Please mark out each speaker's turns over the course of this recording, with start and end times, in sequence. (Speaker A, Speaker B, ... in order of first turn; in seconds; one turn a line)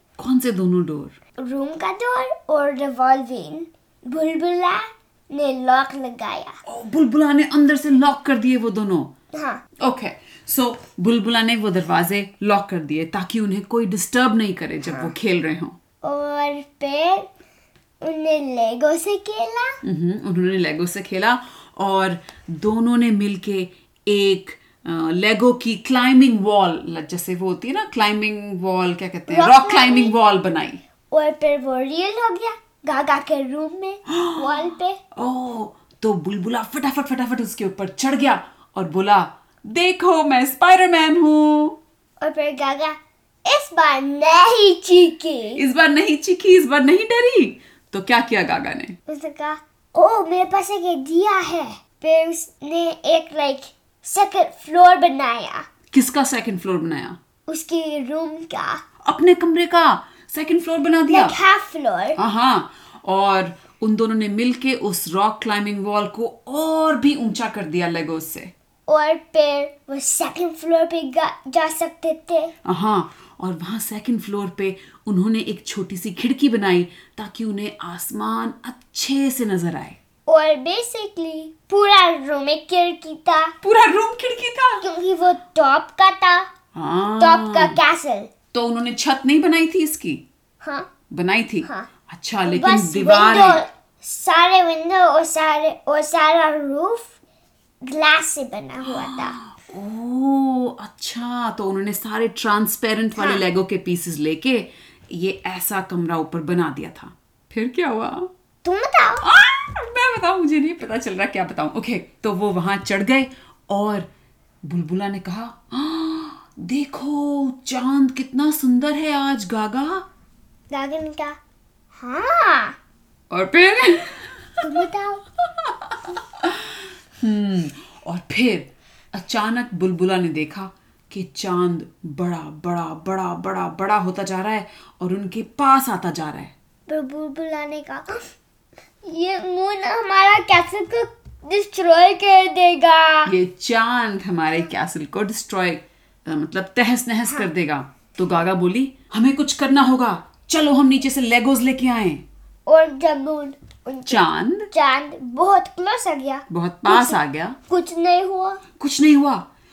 Speaker A: 0.2-1.1
Speaker B: 1.4-6.6
Speaker A: 6.6-9.1
Speaker B: 9.3-9.6
Speaker A: 9.8-15.8
Speaker B: 16.0-17.3
Speaker B: 18.0-19.8
Speaker A: 19.8-30.8
Speaker B: 29.3-30.1
Speaker B: 31.1-35.0
Speaker A: 34.1-34.6
Speaker A: 35.1-41.8
Speaker B: 42.2-45.6
Speaker A: 45.5-49.0
Speaker B: 49.1-55.6
Speaker A: 55.9-57.2
Speaker B: 57.5-58.8
Speaker A: 59.0-61.4
Speaker B: 61.1-62.2
Speaker A: 62.2-68.5
Speaker B: 68.9-72.5
Speaker A: 72.6-80.0
Speaker B: 80.3-83.5
Speaker A: 83.6-84.8
Speaker B: 84.8-86.5
Speaker A: 86.7-87.8
Speaker B: 87.2-88.3
Speaker A: 88.5-90.2
Speaker B: 90.6-90.9
Speaker A: 91.1-93.6
Speaker B: 92.5-97.2
Speaker B: 97.8-99.3
Speaker A: 98.8-108.3
Speaker B: 103.2-103.4
Speaker B: 108.6-109.2
Speaker A: 109.2-114.1
Speaker A: 114.7-120.0
Speaker B: 120.7-121.4
Speaker B: 122.0-122.7
Speaker A: 123.3-124.6
Speaker B: 124.6-125.2
Speaker A: 125.6-136.5
Speaker B: 136.9-138.3
Speaker B: 139.0-143.3
Speaker A: 143.2-152.2
Speaker B: 152.7-158.6
Speaker A: 154.1-154.7
Speaker A: 156.5-157.6
Speaker A: 158.8-159.4